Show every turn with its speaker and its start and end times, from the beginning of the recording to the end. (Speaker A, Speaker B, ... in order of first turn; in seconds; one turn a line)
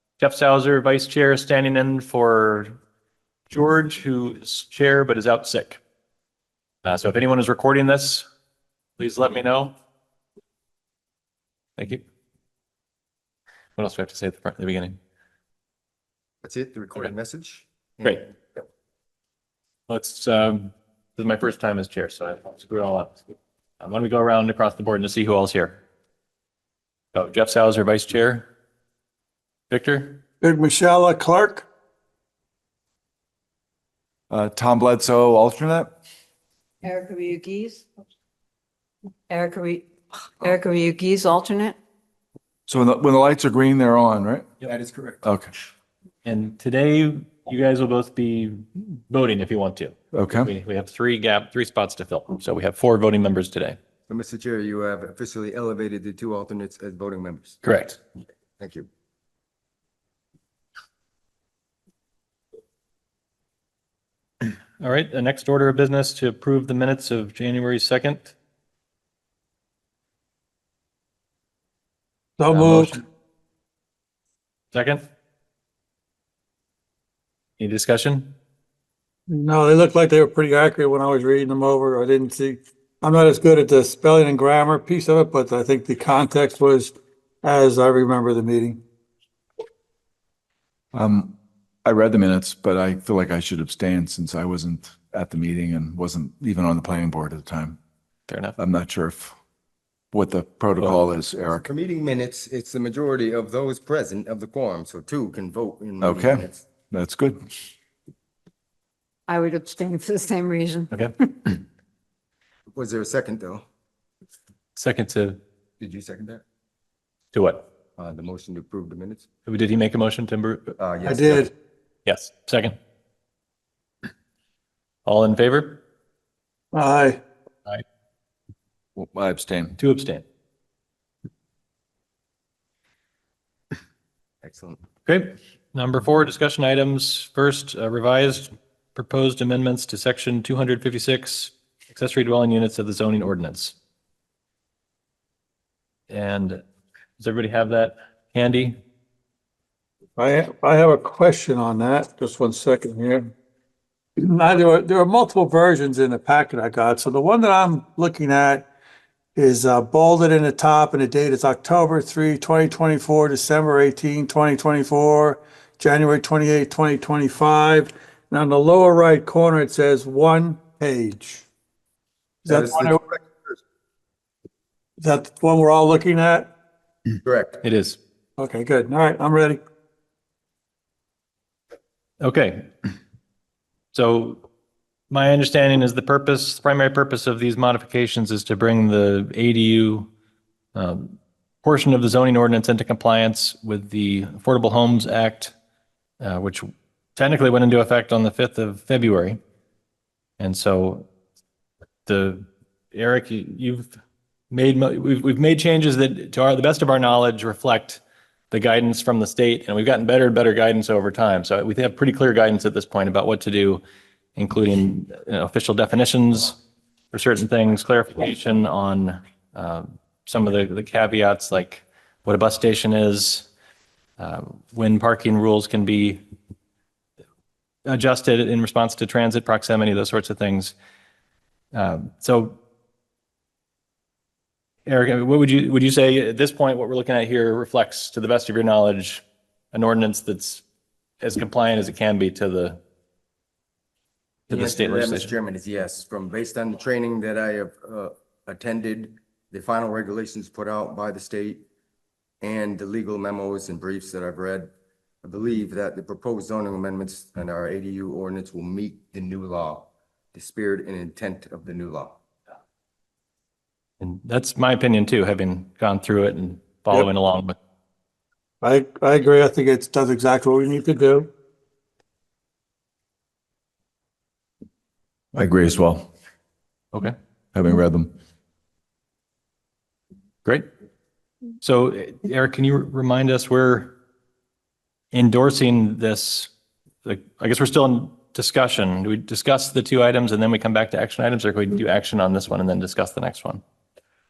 Speaker A: 0.2-2.7
Speaker A: 3.5-5.8
Speaker A: 6.8-8.2
Speaker A: 9.0-9.7
Speaker A: 11.8-12.0
Speaker A: 13.8-15.0
Speaker B: 16.4-18.3
Speaker A: 18.0-18.3
Speaker A: 19.9-23.2
Speaker A: 23.8-25.8
Speaker A: 27.1-28.5
Speaker A: 29.7-30.2
Speaker C: 30.4-31.7
Speaker D: 34.3-35.9
Speaker E: 36.8-37.9
Speaker E: 39.3-41.8
Speaker D: 42.7-44.5
Speaker B: 44.6-45.2
Speaker D: 45.2-45.5
Speaker A: 46.2-53.8
Speaker D: 50.1-50.5
Speaker B: 54.1-57.6
Speaker A: 57.6-58.0
Speaker B: 58.6-58.9
Speaker A: 64.8-68.3
Speaker C: 72.4-73.0
Speaker A: 72.5-73.0
Speaker A: 74.7-75.0
Speaker A: 77.6-78.3
Speaker C: 79.3-88.8
Speaker D: 90.9-97.8
Speaker A: 98.3-98.6
Speaker D: 98.6-99.3
Speaker D: 100.1-101.7
Speaker B: 101.6-106.6
Speaker D: 106.0-107.6
Speaker E: 109.3-110.9
Speaker A: 110.9-111.6
Speaker B: 112.7-113.7
Speaker A: 114.8-115.4
Speaker B: 115.8-116.4
Speaker A: 117.3-117.7
Speaker B: 118.0-119.3
Speaker A: 119.5-120.7
Speaker B: 120.8-121.5
Speaker C: 121.0-121.5
Speaker A: 122.1-122.8
Speaker A: 125.1-125.8
Speaker C: 126.7-127.2
Speaker D: 129.0-129.8
Speaker A: 129.8-130.2
Speaker B: 134.4-134.8
Speaker A: 135.1-143.8
Speaker A: 146.1-146.6
Speaker A: 147.2-148.8
Speaker C: 150.2-153.3
Speaker C: 154.2-158.7
Speaker C: 159.4-171.4
Speaker C: 172.5-173.0
Speaker B: 172.5-173.6
Speaker C: 175.0-176.5
Speaker B: 177.2-177.6
Speaker A: 177.6-178.0
Speaker C: 178.4-179.6
Speaker A: 182.2-182.7
Speaker A: 183.9-184.4
Speaker A: 185.1-190.1
Speaker A: 190.8-195.6
Speaker A: 196.2-199.4
Speaker A: 200.4-201.1
Speaker A: 202.1-203.9
Speaker A: 204.5-213.8
Speaker A: 214.4-216.6
Speaker A: 217.1-223.5
Speaker A: 224.2-226.2
Speaker A: 227.9-230.8
Speaker A: 231.7-232.6
Speaker A: 234.9-240.6
Speaker A: 241.2-242.8
Speaker A: 244.5-245.3
Speaker B: 244.5-251.6
Speaker B: 252.4-254.7
Speaker B: 255.2-262.2
Speaker A: 264.0-267.6
Speaker C: 268.6-271.3
Speaker D: 275.3-276.1
Speaker D: 277.5-278.1
Speaker A: 281.6-283.9
Speaker A: 285.1-286.5
Speaker A: 287.1-293.6